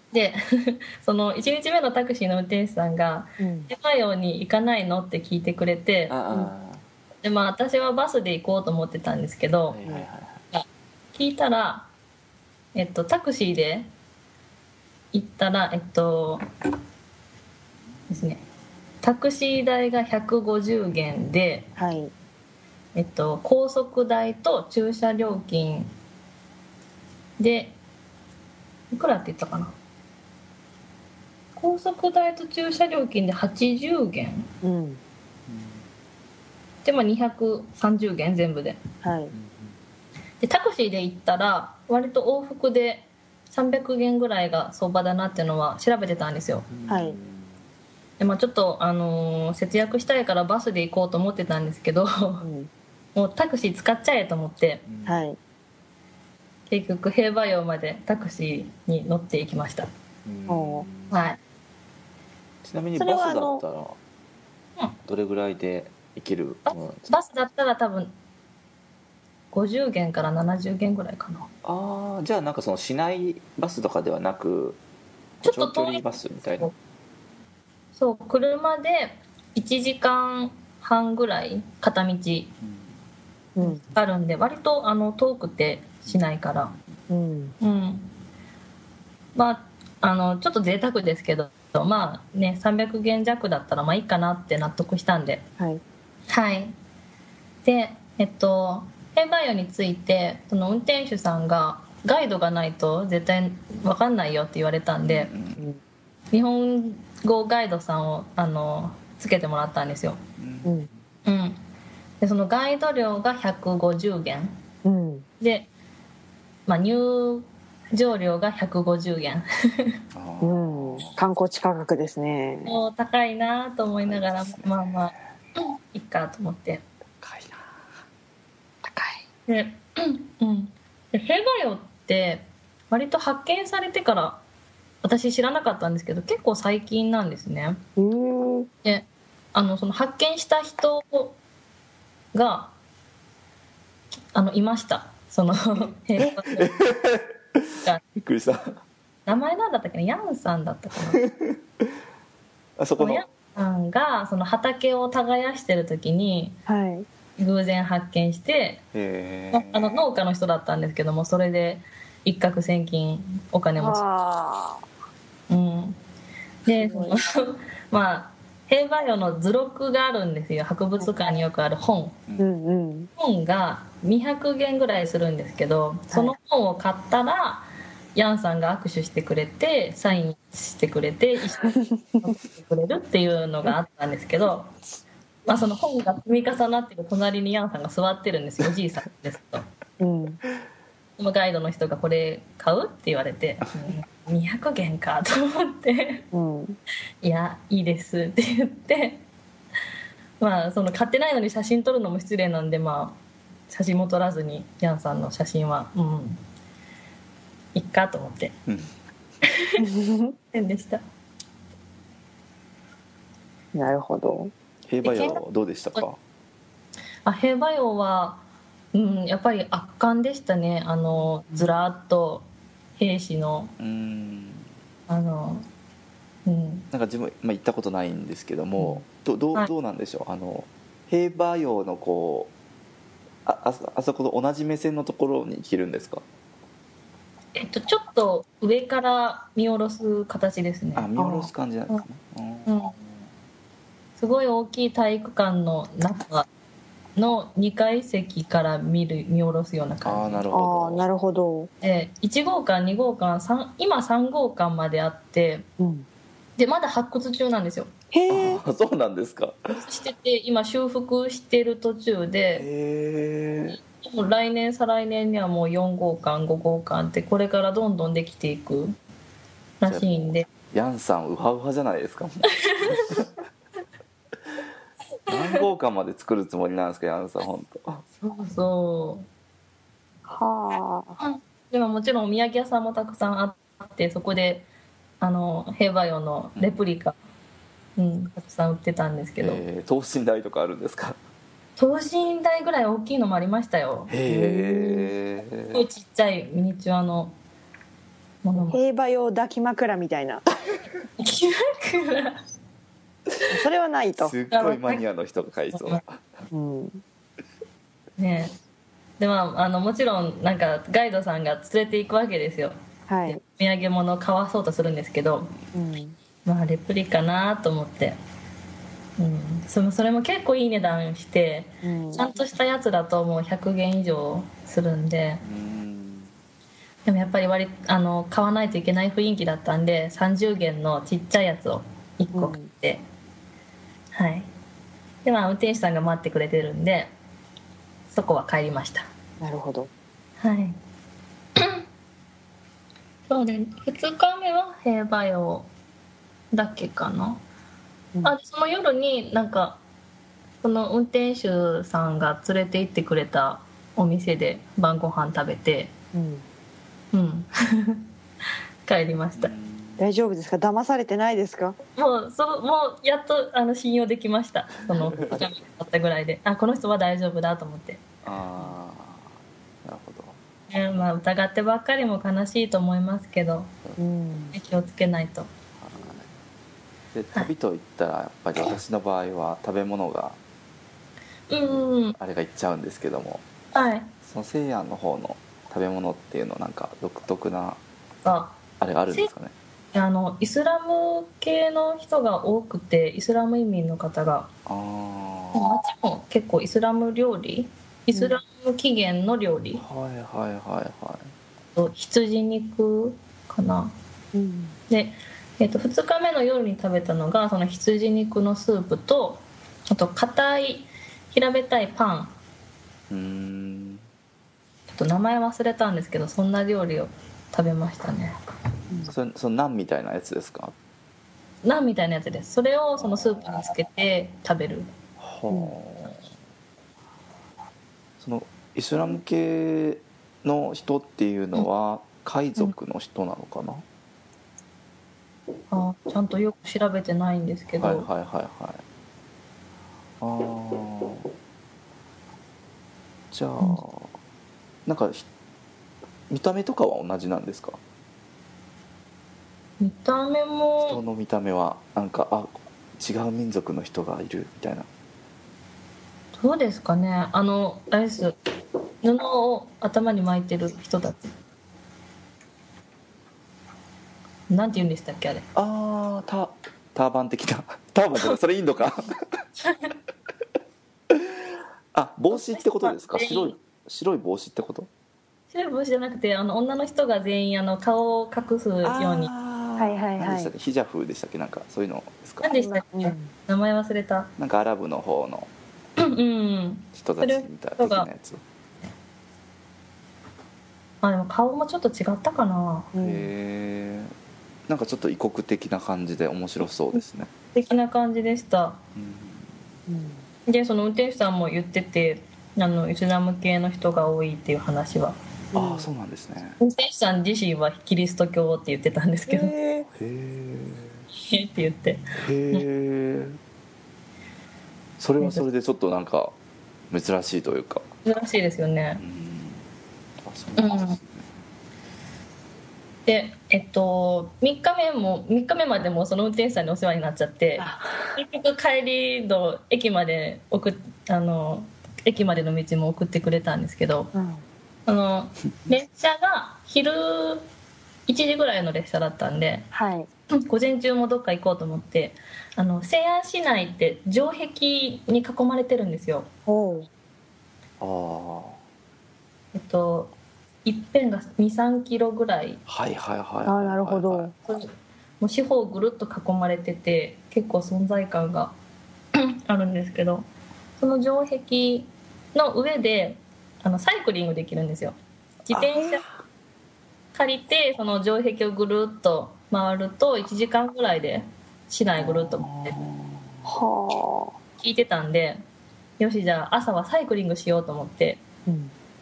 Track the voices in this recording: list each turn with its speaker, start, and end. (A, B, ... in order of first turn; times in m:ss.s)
0:00.1-0:06.2 A
0:03.4-0:03.7 B
0:06.1-0:06.8 C
0:07.2-0:09.8 A
0:09.7-0:10.4 C
0:10.5-0:11.9 A
0:12.8-0:13.9 A
0:15.1-0:16.4 A
0:18.1-0:18.4 A
0:19.0-0:21.7 A
0:21.8-0:22.1 B
0:23.0-0:25.9 A
0:27.4-0:27.8 A
0:28.9-0:29.8 A
0:31.6-0:34.5 A
0:34.6-0:35.0 B
0:35.5-0:35.9 C
0:36.8-0:38.8 A
0:39.0-0:39.3 B
0:39.3-0:39.8 C
0:40.4-0:46.7 A
0:46.7-0:47.6 C
0:46.9-0:47.2 B
0:48.2-0:52.5 A
0:52.4-0:52.7 B
0:53.1-0:54.8 A
0:54.9-0:55.2 C
0:55.0-0:55.4 B
0:56.7-0:59.9 A
1:00.2-1:01.2 C
1:00.5-1:00.9 B
1:01.1-1:01.4 A
1:02.6-1:04.0 C
1:03.0-1:03.6 B
1:05.0-1:07.1 C
1:06.6-1:08.1 A
1:09.5-1:11.5 A
1:11.6-1:14.8 C
1:15.4-1:16.7 C
1:15.4-1:16.7 A
1:18.0-1:22.5 A
1:22.6-1:23.0 C
1:23.6-1:23.8 B
1:23.6-1:26.7 A
1:27.1-1:27.6 B
1:27.6-1:28.1 A
1:29.4-1:35.4 A
1:36.3-1:36.8 A
1:37.6-1:45.3 A
1:45.0-1:45.6 C
1:46.3-1:50.2 A
1:50.4-1:50.7 C
1:50.6-1:50.9 B
1:51.2-1:51.6 A
1:52.2-1:54.6 A
1:54.8-1:55.2 B
1:55.4-1:55.7 A
1:56.7-2:00.0 A
2:00.1-2:01.2 C
2:00.4-2:02.7 B
2:02.6-2:06.8 A
2:04.0-2:05.2 C
2:07.2-2:07.7 C
2:08.8-2:09.2 B
2:09.5-2:14.4 A
2:15.0-2:17.8 A
2:18.0-2:18.7 B
2:18.8-2:21.4 A
2:22.3-2:22.7 A
2:24.3-2:26.8 A
2:26.2-2:28.8 C
2:29.2-2:31.2 A
2:31.2-2:31.9 C
2:32.8-2:33.2 C
2:33.0-2:36.6 A
2:36.7-2:37.1 B
2:37.4-2:38.8 A
2:38.9-2:40.0 C
2:39.5-2:44.0 A
2:43.8-2:44.8 B
2:45.5-2:46.0 A
2:46.6-2:52.2 A
2:46.7-2:47.2 B
2:52.4-2:53.1 B
2:53.2-3:04.7 A
3:01.6-3:02.3 B
3:05.5-3:09.6 A
3:10.0-3:10.4 B
3:11.2-3:16.2 A
3:16.3-3:16.8 B
3:17.2-3:19.2 A
3:20.4-3:26.4 A
3:27.8-3:28.6 A
3:28.7-3:29.0 C
3:29.4-3:29.8 A
3:29.8-3:30.4 B
3:30.5-3:31.0 A
3:33.7-3:34.5 B
3:34.9-3:36.2 C
3:35.0-3:35.4 A
3:37.2-3:43.8 A
3:43.8-3:44.7 C
3:45.1-3:45.6 A
3:46.5-3:46.9 A
3:46.9-3:52.5 C
3:53.4-3:56.2 C
3:57.6-4:01.1 A
4:01.0-4:03.3 C
4:01.2-4:01.5 B
4:02.6-4:03.0 A
4:04.2-4:06.5 A
4:07.2-4:10.5 A
4:10.0-4:11.1 C
4:10.5-4:11.7 B
4:11.8-4:15.6 A
4:15.8-4:16.1 B
4:16.6-4:17.9 A
4:18.1-4:18.6 B
4:18.3-4:19.8 C
4:19.7-4:22.7 A
4:22.6-4:23.8 C
4:24.0-4:29.0 A
4:29.8-4:30.5 A
4:29.8-4:33.3 C
4:32.6-4:33.1 A
4:35.3-4:38.0 C
4:35.3-4:35.6 A
4:38.2-4:39.3 A
4:40.3-4:41.2 B
4:41.2-4:44.7 A
4:45.2-4:47.2 A
4:48.0-4:49.6 A
4:49.4-4:51.2 C
4:51.8-4:54.2 A
4:54.1-4:55.8 C
4:54.2-4:55.1 B
4:55.7-4:57.4 A
4:58.4-4:58.8 A
4:58.6-5:00.4 B
5:01.2-5:02.4 A
5:03.5-5:04.4 B
5:04.2-5:06.3 C
5:04.5-5:05.0 A
5:05.7-5:06.0 A
5:06.5-5:07.0 B
5:08.2-5:08.5 A
5:09.2-5:12.8 A
5:13.1-5:13.4 B
5:13.2-5:15.5 A
5:15.7-5:16.2 B
5:16.4-5:18.2 A
5:19.2-5:25.4 A
5:21.8-5:22.3 B
5:25.4-5:26.3 C
5:27.1-5:33.0 A
5:32.3-5:32.7 B
5:34.1-5:34.5 A
5:35.2-5:37.1 A
5:38.1-5:39.1 A
5:39.4-5:39.9 B
5:40.4-5:40.8 A
5:41.6-5:41.8 A
5:43.3-5:45.7 A
5:46.5-5:47.4 A
5:48.2-5:49.8 A
5:50.6-5:55.9 A
5:56.1-5:56.4 B
5:57.1-5:58.0 A
5:58.9-5:59.5 A
5:59.4-6:00.1 C
6:00.0-6:01.8 B
6:02.0-6:08.0 A
6:05.1-6:05.4 C
6:08.2-6:09.3 C
6:09.8-6:10.4 C
6:10.7-6:13.8 A
6:14.0-6:14.6 B
6:14.5-6:15.5 A
6:15.8-6:16.3 C
6:17.1-6:20.4 C
6:21.5-6:22.2 A
6:22.2-6:23.5 C
6:23.7-6:24.1 A
6:24.2-6:27.8 C
6:28.2-6:28.6 A
6:28.8-6:29.5 C
6:29.9-6:34.5 A
6:34.6-6:35.7 C
6:35.5-6:39.8 A
6:39.8-6:41.3 C
6:41.8-6:43.9 A
6:44.3-6:44.8 B
6:44.9-6:52.3 A
6:53.1-6:54.0 C
6:54.9-6:58.4 A
6:59.1-7:00.8 C
7:01.6-7:04.9 A
7:03.0-7:03.6 C
7:05.2-7:06.2 C
7:05.5-7:05.8 B
7:08.2-7:13.8 C
7:15.7-7:18.1 A
7:17.8-7:18.8 C
7:20.2-7:21.3 C
7:23.3-7:24.1 C
7:24.9-7:25.3 C
7:26.3-7:27.8 C
7:29.8-7:31.0 A
7:30.8-7:34.9 C
7:36.4-7:38.4 A
7:39.0-7:41.3 A
7:44.5-7:45.4 A
7:45.6-7:49.4 C
7:49.6-7:49.9 A
7:51.1-7:54.9 C
7:52.3-7:53.6 A
7:55.5-7:59.3 A
7:58.8-8:02.4 C
7:59.8-8:00.5 B
8:02.4-8:04.3 A
8:02.5-8:03.3 B
8:04.4-8:05.5 C
8:06.0-8:08.1 A
8:07.0-8:08.4 C
8:11.0-8:12.9 A
8:12.9-8:13.3 B
8:13.0-8:14.1 C
8:14.7-8:17.3 C
8:17.5-8:18.8 A
8:19.0-8:19.6 C
8:19.9-8:20.3 B
8:20.5-8:25.2 A
8:25.5-8:25.9 B
8:25.5-8:26.6 C
8:26.6-8:29.5 A
8:29.3-8:29.9 B
8:29.9-8:31.0 C
8:31.2-8:32.6 A
8:32.2-8:33.4 C
8:35.0-8:36.4 C
8:35.2-8:35.4 A
8:36.9-8:37.9 C
8:38.0-8:39.0 A
8:39.0-8:39.6 C
8:40.2-8:41.3 C
8:40.6-8:41.0 A
8:43.1-8:54.1 A
8:47.6-8:48.2 B
8:54.1-8:54.4 B
8:54.9-8:57.4 A
8:58.1-8:59.7 A
8:59.7-9:00.1 B
9:00.4-9:06.3 A
9:06.5-9:06.9 B
9:07.8-9:08.6 C
9:09.5-9:10.1 A
9:10.6-9:12.6 A
9:12.7-9:14.3 C
9:13.4-9:14.3 B
9:14.5-9:18.5 A
9:19.1-9:20.3 A
9:20.8-9:26.0 A
9:25.6-9:25.8 C
9:27.1-9:32.8 A
9:32.0-9:33.5 C
9:33.4-9:34.4 B
9:34.6-9:35.4 A
9:36.0-9:38.2 A
9:38.5-9:38.7 B